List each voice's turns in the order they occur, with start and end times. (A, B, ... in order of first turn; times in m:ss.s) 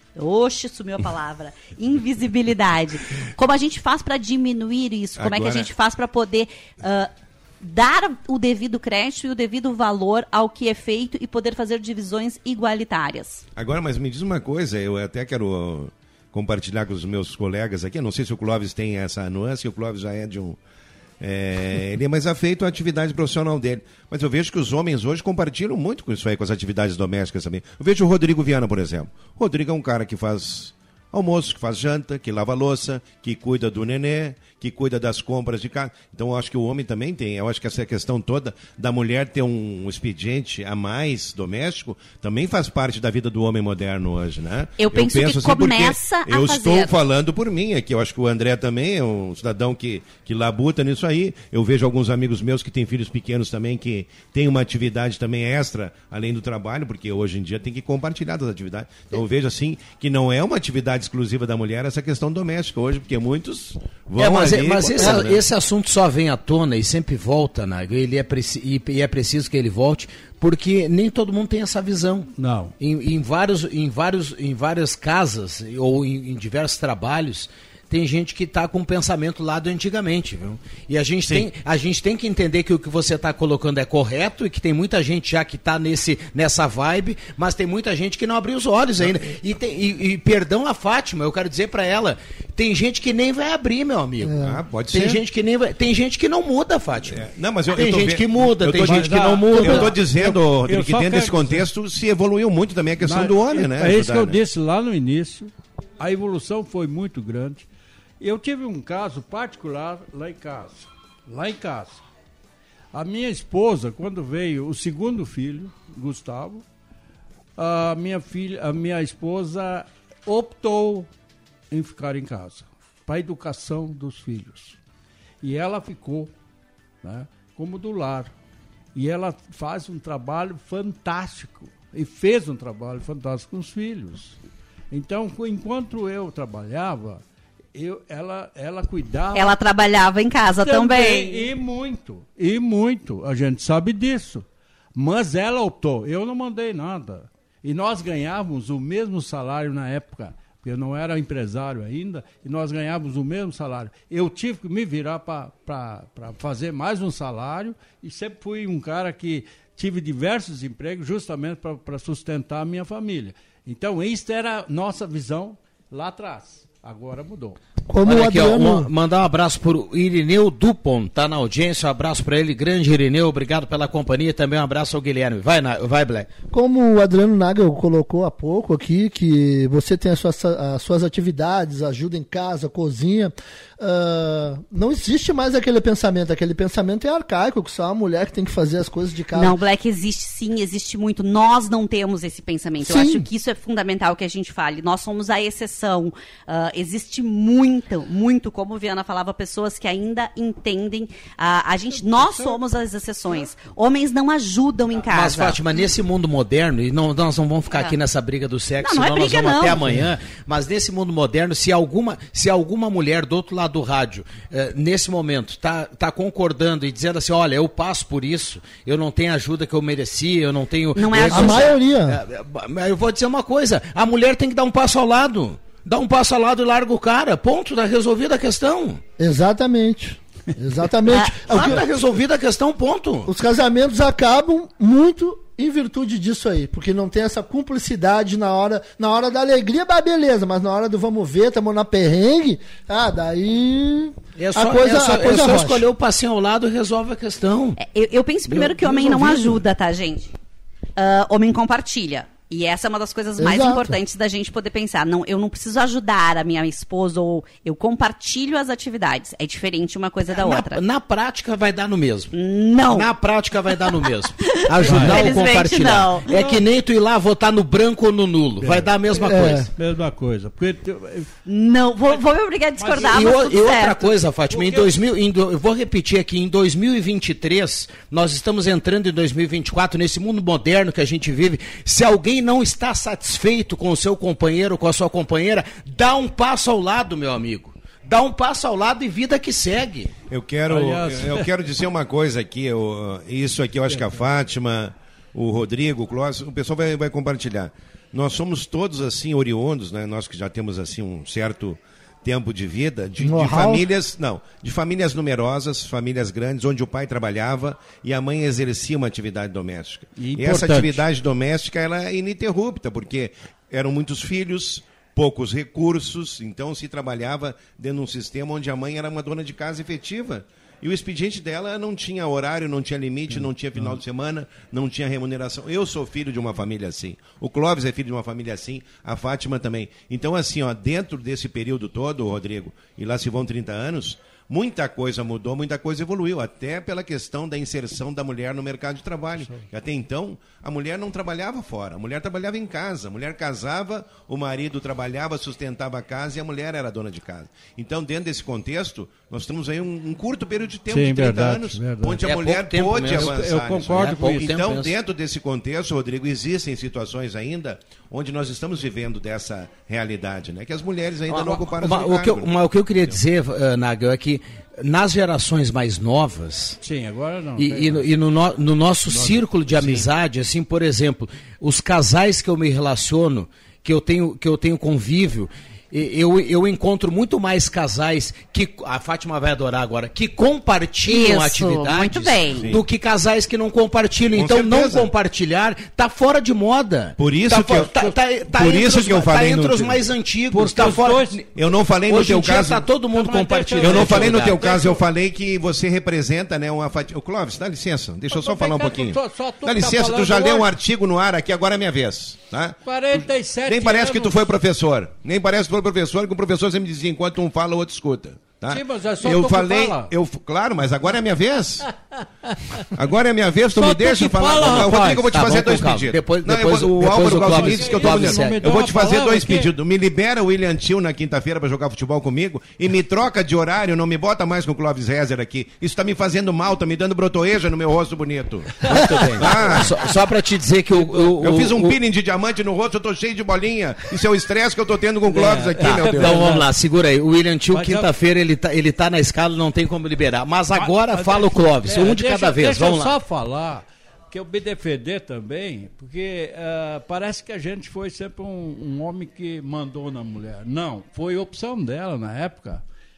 0:00.2-0:07.1 A
0:05.2-0:05.7 B
0:07.6-0:13.4 A
0:13.6-0:20.6 B
0:21.2-1:05.4 B
0:44.8-0:46.9 A
1:04.2-1:34.4 C
1:12.4-1:12.8 D
1:21.2-1:21.5 B
1:29.0-1:29.3 B
1:34.2-1:34.6 E
1:34.4-1:35.2 B
1:34.9-1:40.0 C
1:37.1-1:44.4 B
1:38.8-1:41.7 D
1:43.0-1:47.7 D
1:48.2-1:52.0 D
1:52.9-1:56.6 D
1:57.6-2:01.1 D
2:01.7-2:04.8 D
2:05.4-2:06.3 D
2:07.0-2:08.3 D
2:09.0-2:14.4 D
2:14.9-2:17.2 D
2:17.7-2:19.6 D
2:19.3-2:21.5 A
2:20.6-2:47.6 D
2:47.9-2:48.9 E
2:48.0-2:56.3 C
2:56.5-3:09.6 E
3:09.3-3:25.6 A
3:12.8-3:13.3 E
3:21.9-3:22.6 D
3:25.1-3:49.0 C
3:28.8-3:29.9 A
3:41.0-3:41.8 A
3:41.3-3:42.2 E
3:49.2-3:51.8 E
3:51.1-3:53.3 C
3:51.1-3:51.7 A
3:53.3-4:05.9 E
4:04.4-4:07.8 C
4:07.8-4:10.4 A
4:08.5-4:09.6 E
4:11.0-4:20.8 A
4:13.4-4:14.0 E
4:20.4-4:22.3 C
4:22.3-4:23.1 A
4:22.9-4:29.7 C
4:23.7-4:26.5 A
4:24.8-4:25.4 D
4:28.6-4:31.3 D
4:29.3-4:29.7 E
4:31.5-4:34.1 A
4:32.8-4:33.4 D
4:33.0-4:50.1 C
4:34.5-4:35.0 D
4:50.3-6:02.5 B
4:50.7-4:51.5 D
5:03.2-5:03.9 E
5:10.2-5:11.0 D
5:23.3-5:24.0 D
5:39.4-5:39.6 D
5:50.9-5:52.2 D
5:52.2-5:54.9 C
5:53.1-5:54.5 D
6:01.3-6:06.8 C
6:06.8-6:08.1 D
6:07.6-6:31.4 C
6:09.1-6:10.1 D
6:21.1-6:22.7 A
6:22.5-6:22.8 B
6:24.3-6:25.1 B
6:27.2-6:30.0 B
6:30.5-6:31.5 D
6:31.5-6:32.9 B
6:32.1-6:34.6 C
6:33.1-6:35.0 D
6:33.8-6:51.9 B
6:38.3-6:40.7 D
6:42.8-6:44.6 D
6:48.7-6:50.1 D
6:52.5-6:52.9 D
6:52.9-7:10.0 B
6:53.7-6:55.2 D
6:54.6-6:58.6 C
6:57.1-6:59.7 D
7:08.8-7:10.1 D
7:08.9-7:12.0 C
7:11.0-7:11.3 D
7:11.4-7:16.5 B
7:15.3-7:16.7 D
7:15.8-7:23.2 C
7:17.7-7:18.1 D
7:20.7-7:32.8 D